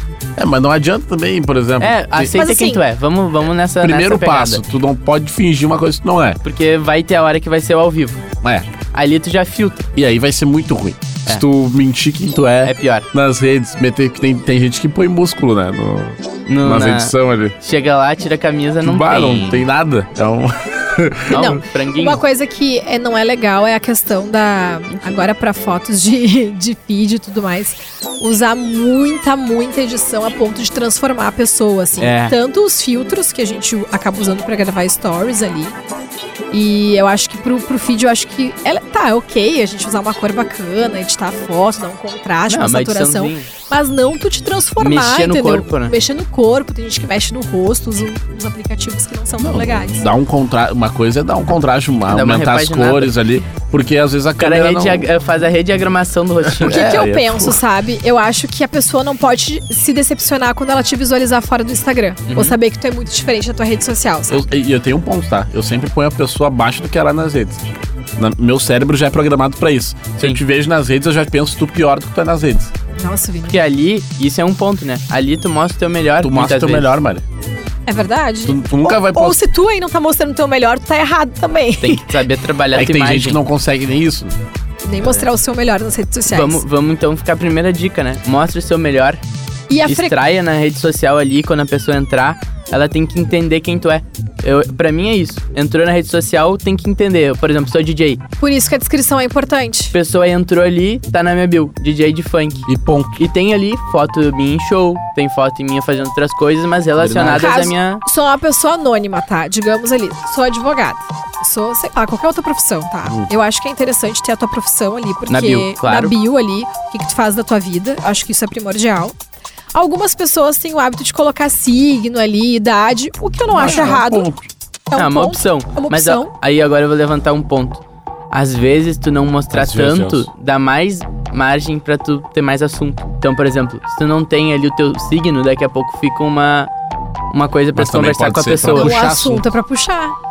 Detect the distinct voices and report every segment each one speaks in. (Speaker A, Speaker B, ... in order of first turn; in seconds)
Speaker A: 0.4-2.4, 3.8-6.4, 8.4-8.7, 9.9-17.5, 18.8-21.5, 49.4-55.1, 56.5-57.6, 64.3-72.7, 76.2-77.2, 78.4-79.4, 82.7-84.3, 102.7-103.2, 107.0-107.5, 123.5-124.5, 129.5-130.3, 137.7-139.4
Speaker B: 1.8-4.6, 6.4-8.2, 8.9-9.9, 12.6-13.1, 16.5-19.6, 21.3-22.2, 32.0-32.3, 42.5-43.5, 44.8-46.0, 52.1-53.1, 54.4-56.9, 62.3-62.5, 73.5-76.9, 81.8-83.4, 86.3-89.2, 89.8-98.2, 99.9-108.0, 115.3-116.1, 123.6-124.0, 124.9-136.7, 137.3-139.0
Speaker C: 2.3-2.8, 21.3-35.7, 36.5-50.0, 56.6-64.5, 73.0-73.6, 77.9-82.2, 84.8-86.6, 89.7-90.2, 98.4-99.9, 107.3-119.1, 119.7-124.3, 124.9-126.3, 138.7-140.1